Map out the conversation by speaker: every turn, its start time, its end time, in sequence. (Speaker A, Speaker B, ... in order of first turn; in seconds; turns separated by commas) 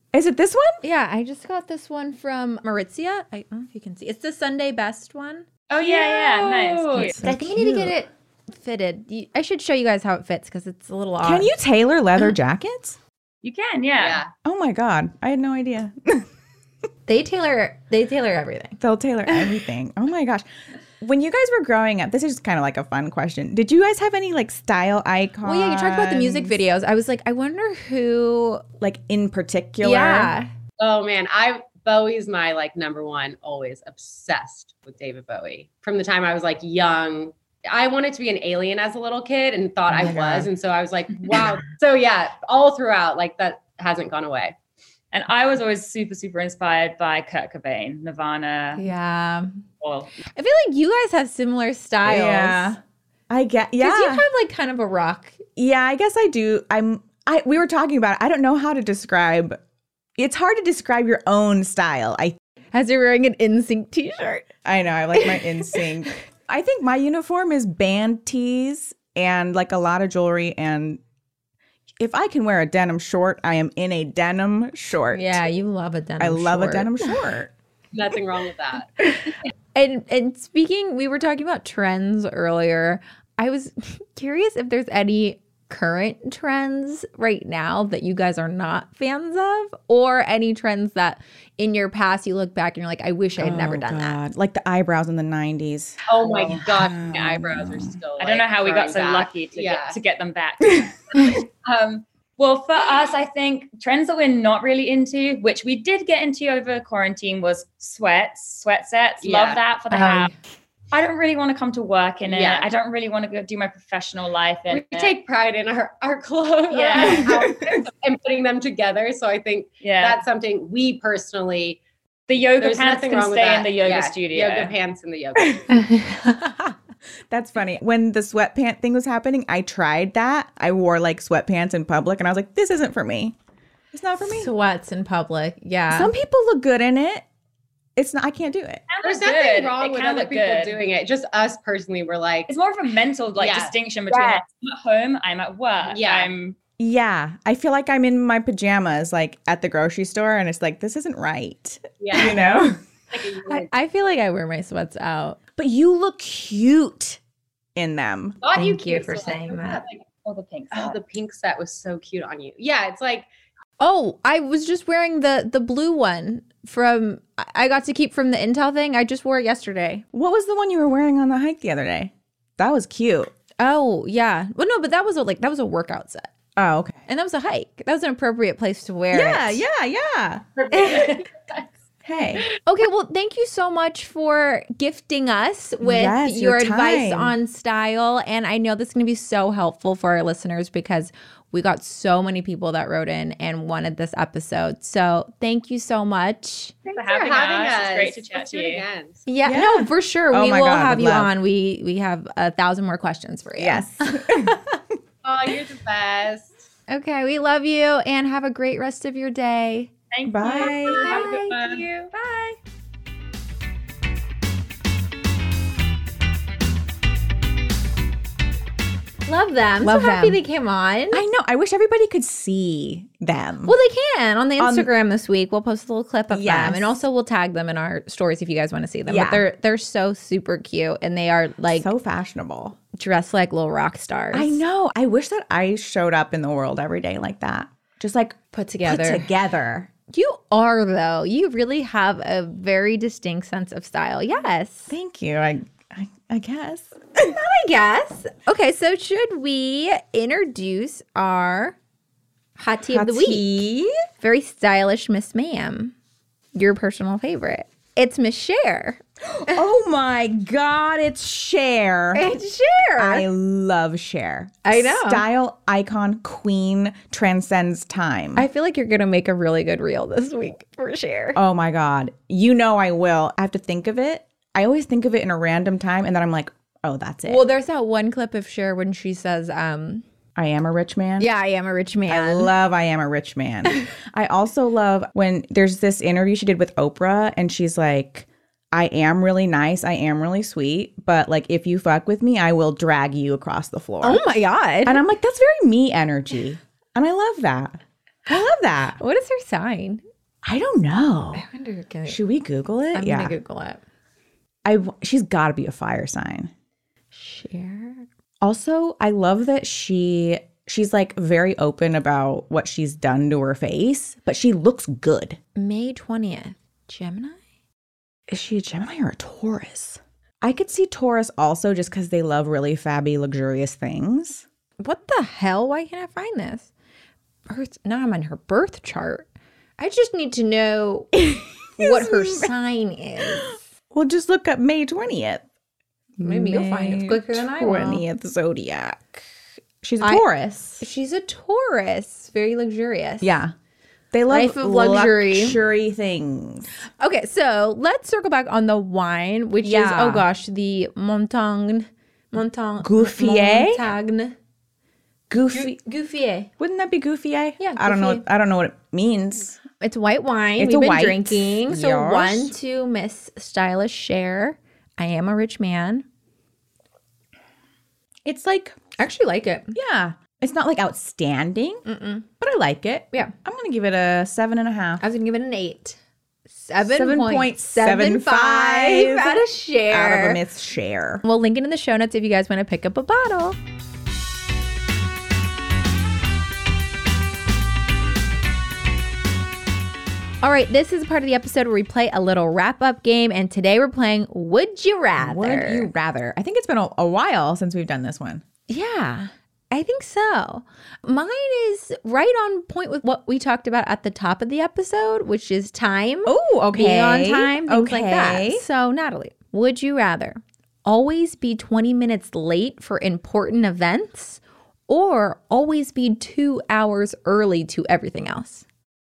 Speaker A: 0.1-0.8, Speaker B: 0.8-5.5, Speaker C: 5.7-7.2, Speaker D: 5.8-7.2, Speaker A: 7.0-7.9, Speaker B: 7.2-11.5, Speaker A: 11.2-13.0, Speaker C: 13.4-14.2, Speaker D: 14.0-14.3, Speaker A: 14.4-16.3, Speaker B: 17.1-19.6, Speaker A: 18.8-20.5, Speaker A: 21.0-26.6, Speaker B: 25.4-28.6, Speaker A: 28.8-30.3, Speaker B: 29.8-30.5, Speaker D: 30.8-44.5, Speaker A: 39.9-40.5, Speaker C: 45.1-48.9, Speaker B: 48.8-49.6, Speaker C: 49.8-50.1, Speaker B: 50.3-52.7, Speaker A: 52.0-52.8, Speaker A: 53.3-54.2, Speaker B: 53.8-55.4, Speaker A: 55.6-59.6, Speaker A: 60.2-62.4, Speaker B: 62.7-64.5, Speaker A: 64.6-71.0, Speaker B: 65.1-65.8, Speaker A: 72.0-75.4, Speaker B: 75.1-77.1, Speaker A: 76.2-77.5, Speaker D: 77.9-78.9, Speaker B: 79.8-94.2, Speaker A: 93.4-98.0, Speaker D: 96.1-100.0, Speaker C: 98.2-110.3, Speaker D: 109.2-109.6, Speaker B: 109.9-110.3, Speaker C: 110.9-115.1, Speaker D: 112.3-112.7, Speaker D: 114.7-121.8, Speaker C: 116.7-117.4, Speaker A: 117.0-117.8, Speaker C: 119.8-120.2, Speaker C: 122.3-124.7, Speaker D: 122.6-125.7, Speaker B: 125.7-126.7, Speaker A: 127.3-133.4, Speaker A: 133.9-134.5, Speaker B: 134.2-136.1, Speaker A: 135.9-137.2, Speaker A: 138.0-138.8, Speaker C: 138.9-140.8, Speaker D: 139.0-142.5, Speaker C: 142.5-146.6, Speaker D: 143.4-143.7, Speaker A: 144.1-144.4, Speaker D: 145.9-146.3, Speaker A: 146.8-152.8, Speaker D: 152.0-153.7, Speaker B: 153.5-155.4, Speaker A: 155.6-157.2, Speaker A: 157.8-158.4, Speaker D: 158.4-160.1, Speaker B: 158.5-159.8, Speaker C: 160.2-161.0, Speaker D: 160.7-163.3, Speaker B: 163.8-170.0, Speaker A: 170.1-173.3, Speaker B: 173.6-176.3, Speaker A: 176.6-177.0, Speaker B: 177.1-179.6, Speaker A: 179.1-180.9, Speaker C: 180.6-181.6, Speaker A: 182.1-182.5, Speaker B: 182.6-196.8, Speaker A: 185.8-187.3, Speaker D: 196.9-199.2, Speaker C: 196.9-198.8, Speaker B: 199.3-204.8, Speaker A: 199.5-201.3, Speaker A: 203.6-204.6, Speaker D: 205.2-206.6, Speaker B: 206.9-209.9, Speaker C: 210.1-212.6, Speaker A: 210.3-211.1, Speaker D: 210.4-211.9, Speaker B: 210.9-211.9, Speaker B: 219.3-221.2, Speaker A: 219.8-220.4, Speaker A: 221.1-223.7, Speaker B: 223.7-231.9, Speaker A: 224.6-224.9, Speaker A: 226.3-227.0, Speaker A: 229.1-229.4, Speaker A: 231.7-232.8, Speaker B: 232.9-234.6, Speaker A: 234.3-239.9, Speaker B: 238.5-239.3, Speaker B: 240.1-244.9, Speaker A: 244.9-247.4, Speaker B: 247.2-251.8, Speaker B: 252.6-253.6, Speaker A: 252.9-253.9, Speaker B: 254.2-255.9, Speaker B: 256.6-259.6, Speaker A: 259.2-262.3, Speaker B: 262.1-263.3, Speaker A: 263.0-268.5, Speaker B: 264.6-265.2, Speaker B: 268.4-271.4, Speaker A: 271.4-277.4, Speaker B: 277.3-280.0, Speaker A: 280.4-281.3, Speaker B: 281.2-282.5, Speaker A: 282.1-294.2, Speaker B: 294.0-295.0, Speaker A: 294.9-299.0, Speaker B: 299.0-300.0, Speaker A: 300.4-301.5, Speaker B: 301.3-302.2, Speaker A: 302.1-303.4, Speaker B: 302.9-303.8, Speaker A: 304.6-306.5, Speaker B: 307.1-308.0, Speaker A: 308.4-315.4, Speaker B: 315.6-317.4, Speaker A: 318.3-324.4, Speaker B: 324.8-326.7, Speaker B: 327.5-329.3, Speaker B: 329.8-331.1, Speaker A: 331.1-332.5, Speaker B: 331.8-333.6, Speaker A: 333.4-335.4, Speaker A: 336.2-339.3, Speaker B: 336.2-338.0, Speaker A: 339.8-340.8, Speaker B: 340.0-343.3, Speaker A: 343.2-343.5, Speaker A: 344.1-346.7, Speaker B: 344.3-345.6, Speaker B: 347.0-354.4, Speaker A: 349.6-350.3, Speaker A: 352.8-353.9, Speaker A: 355.3-355.8, Speaker B: 355.5-356.5, Speaker A: 356.6-359.6, Speaker B: 357.6-358.2, Speaker B: 359.8-366.1, Speaker A: 360.6-362.6, Speaker A: 368.2-368.8, Speaker B: 369.0-369.8, Speaker A: 369.7-371.8, Speaker B: 371.9-372.3, Speaker A: 372.4-375.1, Speaker B: 375.0-376.0, Speaker B: 376.5-380.4, Speaker A: 376.8-381.2, Speaker B: 381.2-383.6, Speaker B: 390.4-395.9, Speaker A: 395.2-398.4, Speaker B: 398.7-418.6, Speaker A: 406.2-408.6